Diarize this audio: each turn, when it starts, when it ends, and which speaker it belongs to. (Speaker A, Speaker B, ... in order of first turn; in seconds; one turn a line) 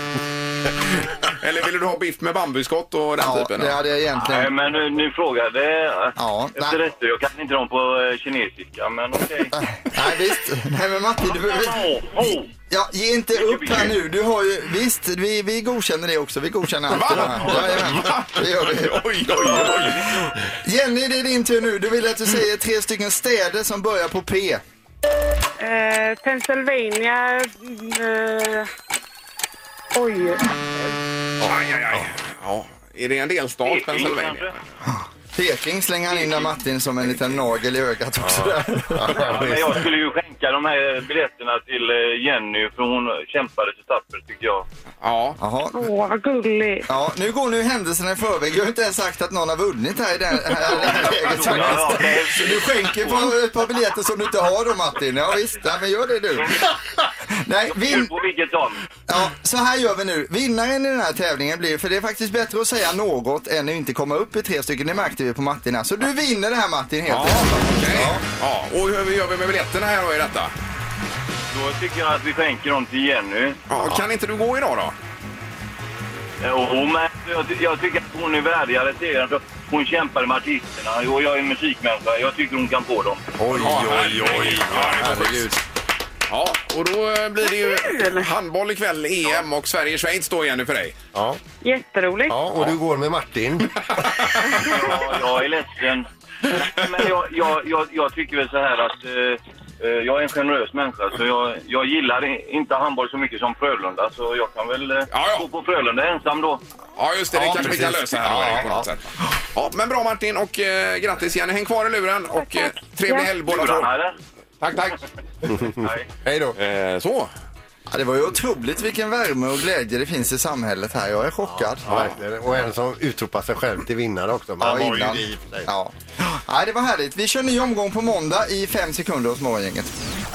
Speaker A: 1.2-3.8
Speaker B: 3.2-4.5
Speaker C: 4.1-9.5
Speaker B: 6.2-6.8
Speaker B: 9.5-20.0
Speaker C: 11.4-12.5
Speaker C: 13.3-13.9
Speaker A: 16.9-20.3
Speaker B: 20.6-24.6
Speaker D: 25.6-28.7
Speaker D: 29.9-30.5
Speaker E: 31.4-32.1
Speaker A: 31.4-34.5
Speaker C: 33.6-34.5
Speaker B: 35.3-39.2
Speaker C: 36.1-36.5
Speaker E: 38.2-39.9
Speaker C: 39.2-44.6
Speaker A: 45.0-45.4
Speaker B: 45.4-45.8
Speaker D: 45.7-46.9
Speaker B: 46.9-56.6
Speaker C: 50.6-53.4
Speaker C: 56.4-56.7
Speaker B: 57.3-58.2
Speaker C: 57.7-58.8
Speaker B: 59.1-68.2
Speaker A: 67.1-70.5
Speaker C: 71.5-73.6
Speaker A: 73.7-74.9
Speaker E: 73.8-74.0
Speaker C: 76.4-83.3
Speaker E: 83.4-85.6
Speaker A: 83.5-85.6
Speaker A: 86.3-91.0
Speaker D: 87.4-88.3
Speaker E: 91.1-91.4
Speaker D: 91.6-92.4
Speaker E: 92.3-94.6
Speaker A: 92.5-92.8
Speaker A: 94.2-94.6
Speaker C: 94.6-106.6
Speaker A: 105.1-105.5
Speaker A: 107.0-109.0
Speaker E: 107.3-108.9
Speaker A: 109.5-114.0
Speaker D: 112.3-113.4
Speaker C: 113.4-114.2
Speaker A: 114.6-115.0
Speaker E: 115.5-116.6
Speaker C: 115.8-116.1
Speaker A: 116.5-117.3
Speaker B: 117.9-122.0
Speaker E: 121.5-125.7
Speaker A: 121.8-122.2
Speaker B: 124.6-129.9